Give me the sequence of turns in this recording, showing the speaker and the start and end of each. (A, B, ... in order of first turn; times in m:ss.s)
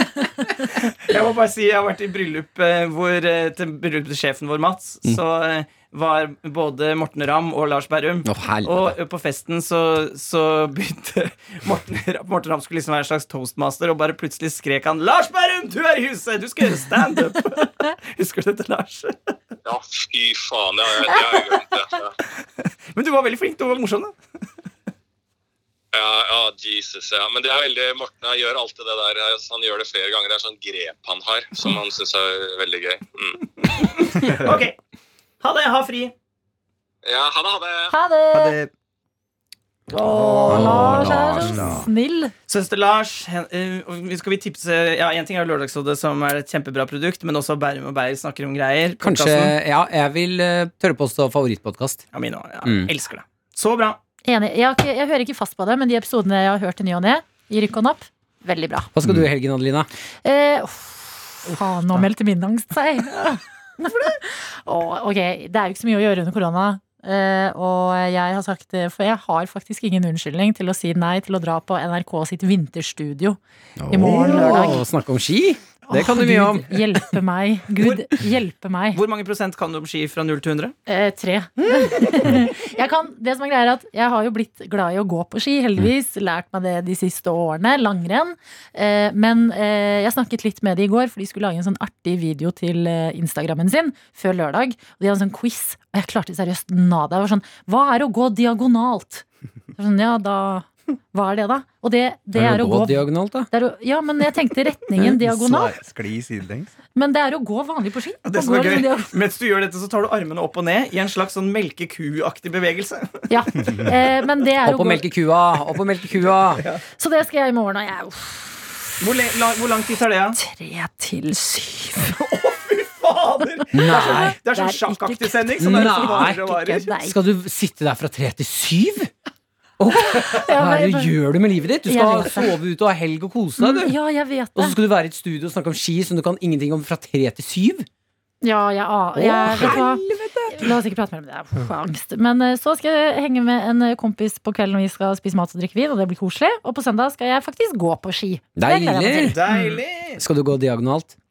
0:00.8-0:19.3 A
0:08.2-0:09.0 B
0:19.6-0:22.1 C
0:22.6-0:24.1 A
0:25.9-0:33.7 C
0:33.8-0:34.8 A
0:34.3-0:34.6 D
0:35.4-0:36.1 A
0:37.0-0:37.9 C
0:37.9-0:38.6 E
0:38.3-0:38.7 D
0:39.9-0:42.3 E
0:40.0-0:41.9 D
0:40.5-0:41.7 B
0:42.5-0:49.6 A
0:49.0-0:52.0 B
0:52.1-0:54.0 A
0:52.6-0:52.9 B
0:54.2-0:58.9 E
0:58.9-0:59.9 B
1:00.2-1:14.8 E
1:13.8-1:16.8 B
1:13.9-1:14.8 A
1:15.8-1:19.0 E
1:18.9-1:20.7 A
1:20.9-1:45.7 E
1:42.3-1:43.5 B
1:45.0-1:46.7 D
1:46.9-1:49.1 E
1:48.2-1:53.7 A
1:53.3-1:55.0 E
1:54.6-1:56.6 B
1:56.5-1:56.8 A
1:56.8-1:58.6 E
1:59.0-2:00.4 A
2:00.3-2:02.2 E
2:02.1-2:06.9 A
2:03.7-2:04.3 B
2:03.8-2:07.2 E
2:05.6-2:06.4 B
2:07.0-2:09.1 B
2:09.8-2:13.8 B
2:10.1-2:11.1 E
2:11.8-2:12.6 E
2:13.6-2:14.8 E
2:14.5-2:17.8 B
2:18.4-2:29.8 E
2:19.1-2:20.7 B
2:28.6-2:29.4 B
2:29.3-2:30.2 A
2:30.2-2:31.1 B